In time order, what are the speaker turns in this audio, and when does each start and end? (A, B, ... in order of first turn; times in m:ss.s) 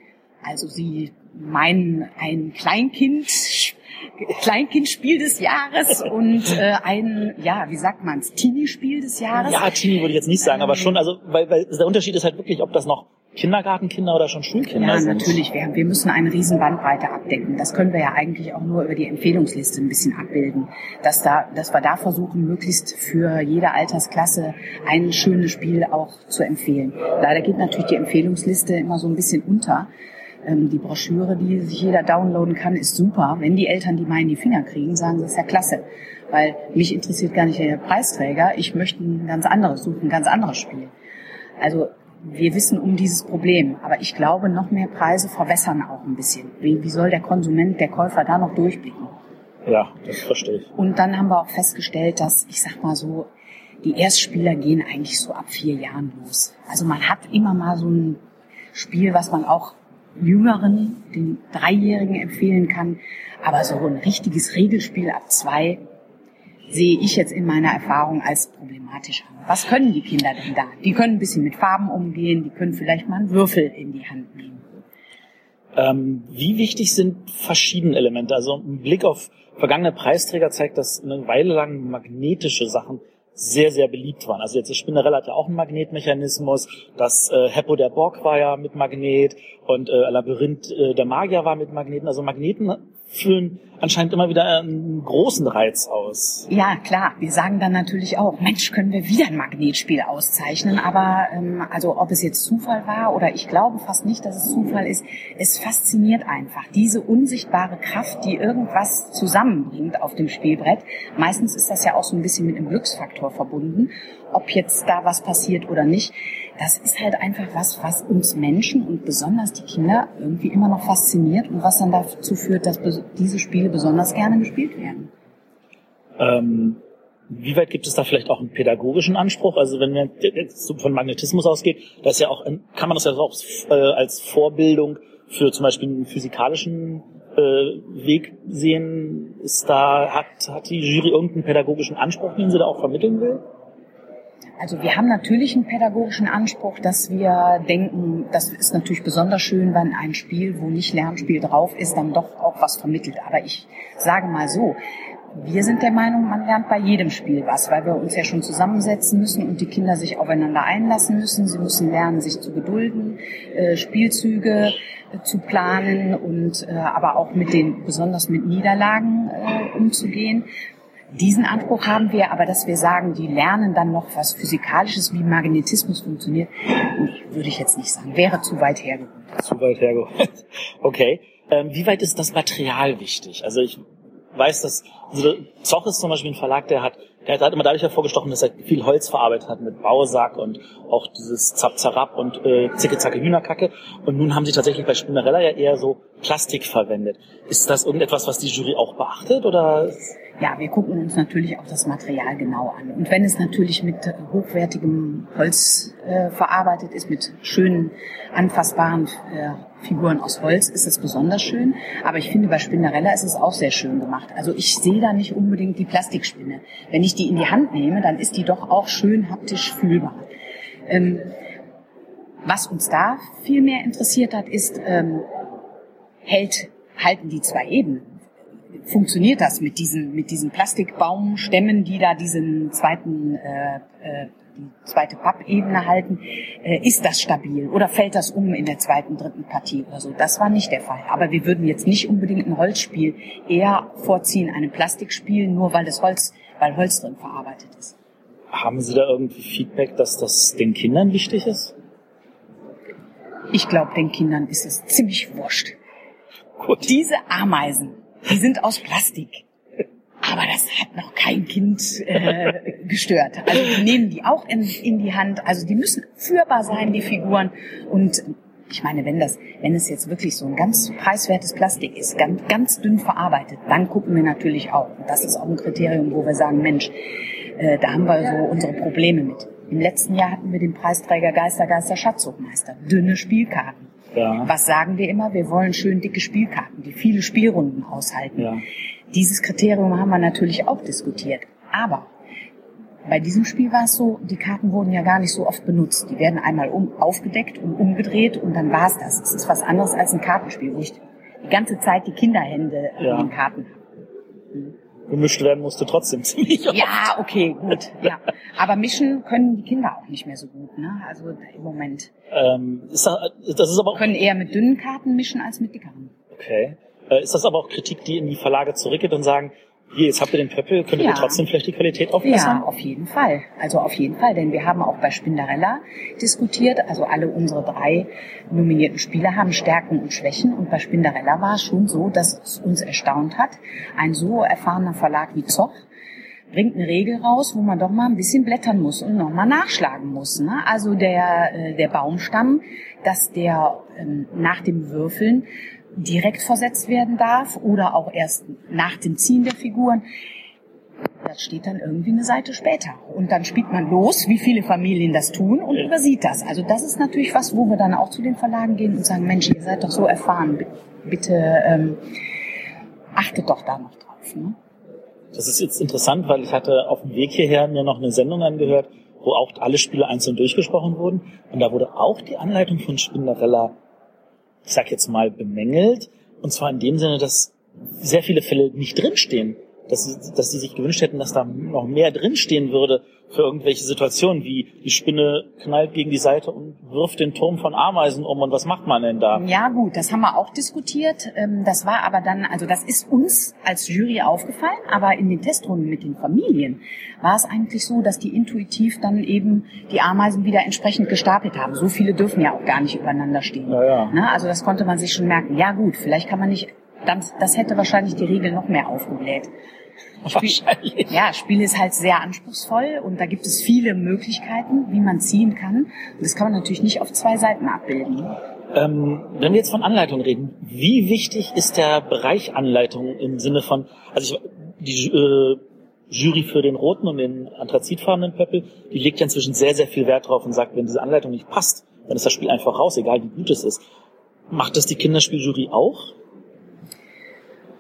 0:00.4-0:09.7 A
0:09.3-0:15.4 B
0:10.4-0:11.0 A
0:14.7-0:29.9 A
0:30.4-0:40.9 A
0:41.6-0:49.1 A
0:49.6-0:50.7 B
0:50.8-0:53.3 A
0:53.8-0:58.2 A
0:58.7-1:05.8 A
1:06.7-1:14.6 A
1:15.8-1:36.5 B
1:36.5-2:05.1 A
2:06.2-2:23.4 B
2:24.6-2:34.8 A
2:35.3-2:50.5 A
2:51.1-2:59.4 A
2:59.4-3:03.8 B
3:04.3-3:20.1 B
3:20.4-3:40.2 A
3:40.9-3:41.4 A
3:42.4-3:45.3 A
3:46.2-3:48.1 A
3:48.8-4:07.9 A
4:08.5-4:11.7 B
4:13.5-4:15.8 A
4:16.6-4:16.9 B
4:16.8-4:19.4 A
4:20.2-4:37.0 A
4:37.6-4:43.9 A
4:44.1-4:44.5 B
4:44.4-4:48.6 A
4:48.4-4:48.6 B
4:49.1-4:52.1 A
4:53.0-5:03.8 A
5:03.0-5:03.3 B
5:05.1-5:06.9 B
5:06.7-5:12.1 A
5:12.3-5:14.1 B
5:14.0-5:16.1 A
5:16.3-5:22.6 B
5:21.0-5:21.4 A
5:22.2-5:35.8 A
5:36.5-5:50.0 A
5:51.2-6:02.0 A
6:03.1-6:04.6 A
6:05.3-6:13.8 B
6:14.6-6:29.4 B
6:29.3-6:49.5 A
6:43.7-6:44.2 B
6:50.2-6:51.2 B
6:50.4-6:58.4 A
6:58.7-7:13.8 B
7:14.5-7:16.1 B